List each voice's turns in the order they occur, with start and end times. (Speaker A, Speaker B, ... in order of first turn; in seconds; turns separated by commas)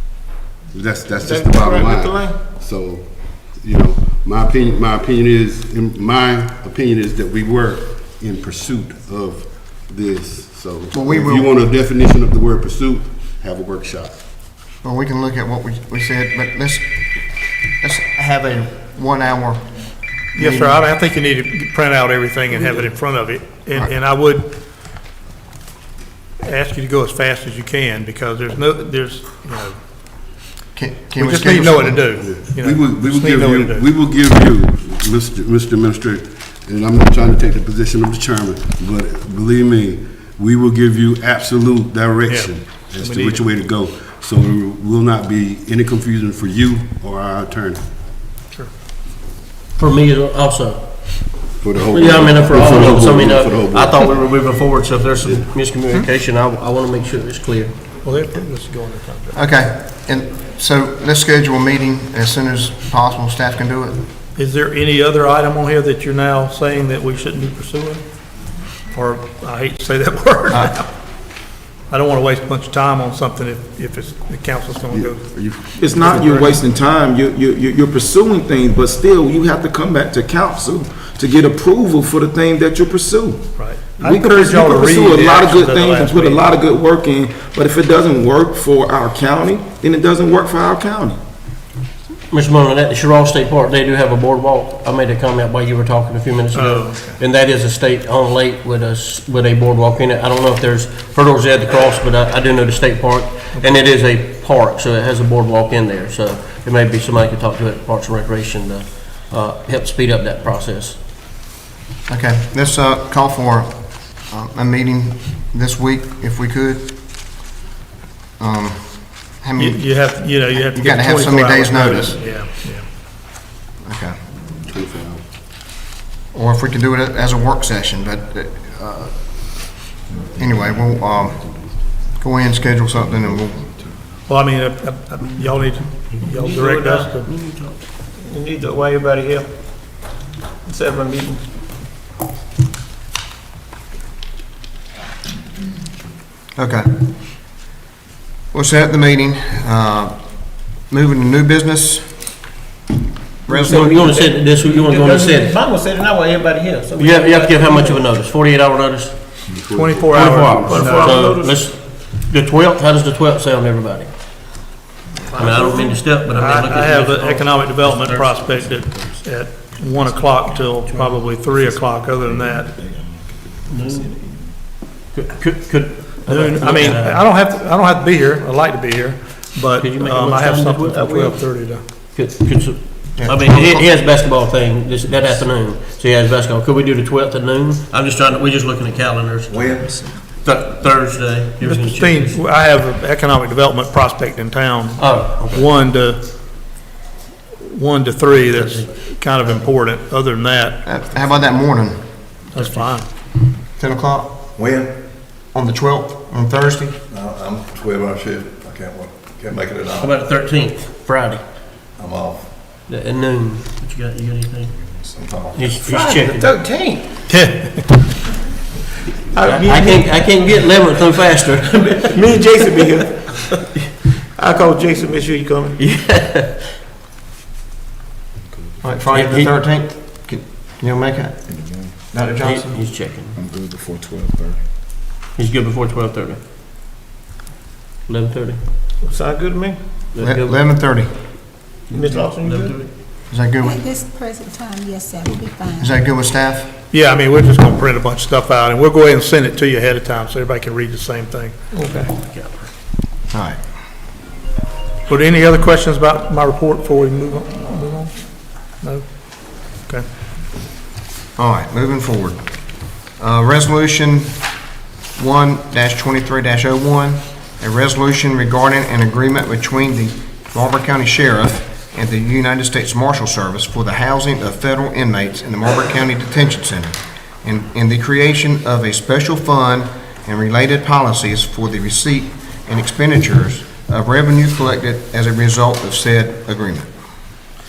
Speaker A: 0.7-14.2, Speaker B: 1.2-2.4, Speaker C: 10.9-11.5, Speaker C: 14.8-20.8, Speaker D: 20.3-24.5, Speaker D: 26.4-29.8, Speaker C: 30.7-32.1, Speaker D: 31.2-33.9, Speaker A: 32.2-47.8, Speaker D: 42.3-43.5, Speaker E: 49.8-57.7, Speaker A: 51.6-54.1, Speaker D: 58.0-59.4, Speaker C: 59.3-64.0, Speaker D: 64.3-68.0, Speaker D: 68.9-70.9, Speaker D: 71.9-76.5, Speaker A: 74.9-76.6, Speaker F: 75.8-91.2, Speaker D: 83.6-86.5, Speaker E: 92.3-111.0, Speaker D: 96.5-97.2, Speaker C: 112.1-116.9, Speaker C: 118.4-122.2, Speaker D: 119.6-122.8, Speaker C: 123.8-124.2, Speaker A: 124.7-125.2, Speaker C: 126.3-129.7, Speaker C: 130.4-131.4, Speaker C: 132.2-133.7, Speaker D: 134.3-137.3, Speaker B: 136.2-137.3, Speaker E: 137.3-137.7, Speaker B: 138.0-139.5, Speaker B: 140.6-141.4, Speaker C: 146.6-146.9, Speaker C: 148.5-152.2, Speaker C: 153.4-154.2, Speaker E: 153.5-155.5, Speaker B: 153.6-158.1, Speaker E: 157.0-159.4, Speaker A: 159.5-161.0, Speaker D: 159.7-161.2, Speaker E: 160.1-164.1, Speaker B: 160.7-161.6, Speaker D: 165.3-172.7, Speaker E: 165.3-168.6, Speaker G: 168.7-169.2, Speaker G: 169.8-174.5, Speaker E: 173.7-174.1, Speaker E: 174.7-177.2, Speaker D: 176.2-181.8, Speaker E: 179.8-181.1, Speaker B: 180.8-181.4, Speaker E: 182.1-192.4, Speaker C: 183.2-183.8, Speaker G: 189.5-190.1, Speaker D: 191.6-196.2, Speaker E: 195.0-195.7, Speaker D: 197.6-200.8, Speaker E: 198.4-198.9, Speaker C: 200.8-202.0, Speaker D: 202.5-203.1, Speaker C: 203.7-204.5, Speaker G: 204.6-205.0, Speaker C: 205.5-207.0, Speaker G: 207.1-210.2, Speaker E: 209.9-211.4, Speaker G: 211.9-212.5, Speaker E: 212.9-215.0, Speaker G: 215.0-215.7, Speaker E: 215.5-216.5, Speaker B: 215.8-217.1, Speaker D: 217.3-218.0, Speaker B: 219.3-220.2, Speaker E: 219.4-222.5, Speaker B: 221.7-223.5, Speaker B: 224.3-225.8, Speaker E: 225.8-226.6, Speaker C: 228.8-232.8, Speaker E: 229.1-229.6, Speaker G: 231.5-231.9, Speaker E: 232.4-233.3, Speaker G: 233.3-234.6, Speaker E: 235.3-236.4, Speaker E: 238.1-238.6, Speaker B: 239.0-239.8, Speaker E: 240.1-240.6, Speaker C: 240.2-241.1, Speaker B: 241.9-242.8, Speaker E: 241.9-242.9, Speaker C: 243.3-243.8, Speaker H: 243.6-245.9, Speaker C: 245.8-246.7, Speaker D: 246.9-252.1, Speaker E: 251.8-252.7, Speaker C: 253.3-253.6, Speaker D: 255.1-258.1, Speaker D: 258.7-259.0, Speaker D: 259.6-260.0, Speaker C: 261.4-264.5, Speaker C: 265.1-286.9